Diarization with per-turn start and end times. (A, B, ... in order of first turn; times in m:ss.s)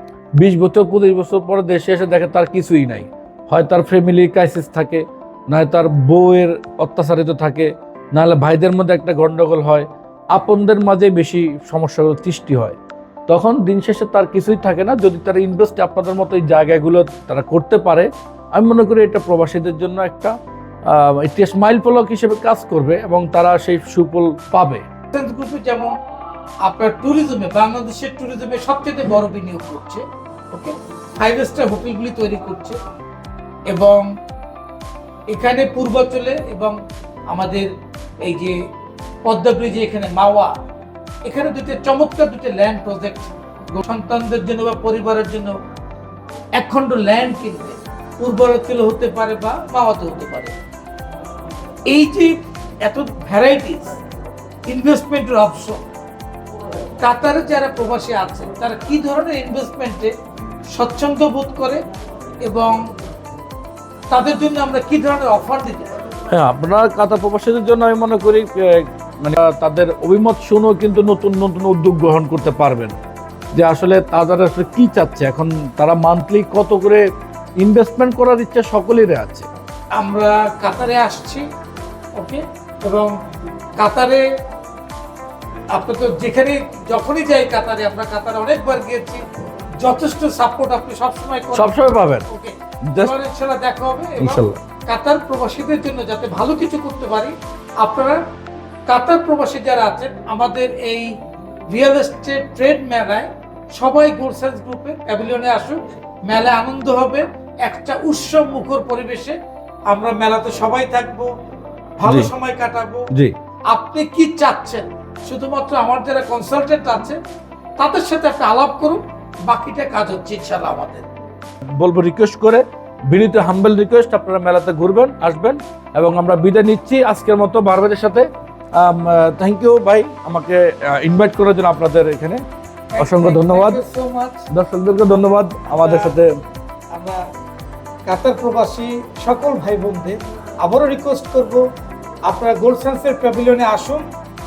0:00.4-0:12.8 A
0:13.3-0:20.3 A
0:20.9-0:24.8 A
0:25.1-0:25.9 B
0:26.6-0:32.8 B
0:33.7-0:34.1 B
0:35.3-0:36.8 B
0:37.3-0:37.7 B
0:38.2-0:38.6 B
0:39.2-0:40.5 B
0:41.2-0:45.5 B
0:46.6-0:50.5 B
0:51.9-0:54.0 B
0:54.7-0:55.8 B
0:57.0-1:00.1 B
1:00.7-1:01.8 B
1:02.4-1:02.8 B
1:04.1-1:05.9 B
1:06.3-1:13.0 A
1:13.5-1:17.0 A
1:17.6-1:19.5 A
1:20.0-1:21.4 B
1:22.2-1:23.1 B
1:23.8-1:24.2 B
1:25.7-1:29.2 B
1:29.8-1:38.2 B
1:31.5-1:32.2 A
1:32.9-1:33.1 A
1:34.2-1:34.6 A
1:38.9-1:41.1 B
1:41.7-1:49.4 B
1:49.9-1:51.3 B
1:52.0-1:53.1 B
1:52.0-1:52.3 A
1:53.7-1:57.2 B
1:57.8-2:01.0 B
2:01.8-2:12.4 A
2:12.9-2:14.5 B
2:13.0-2:13.8 A
2:14.5-2:16.3 A
2:15.7-2:16.1 B
2:16.9-2:17.2 B
2:18.1-2:21.6 B
2:22.3-2:24.0 B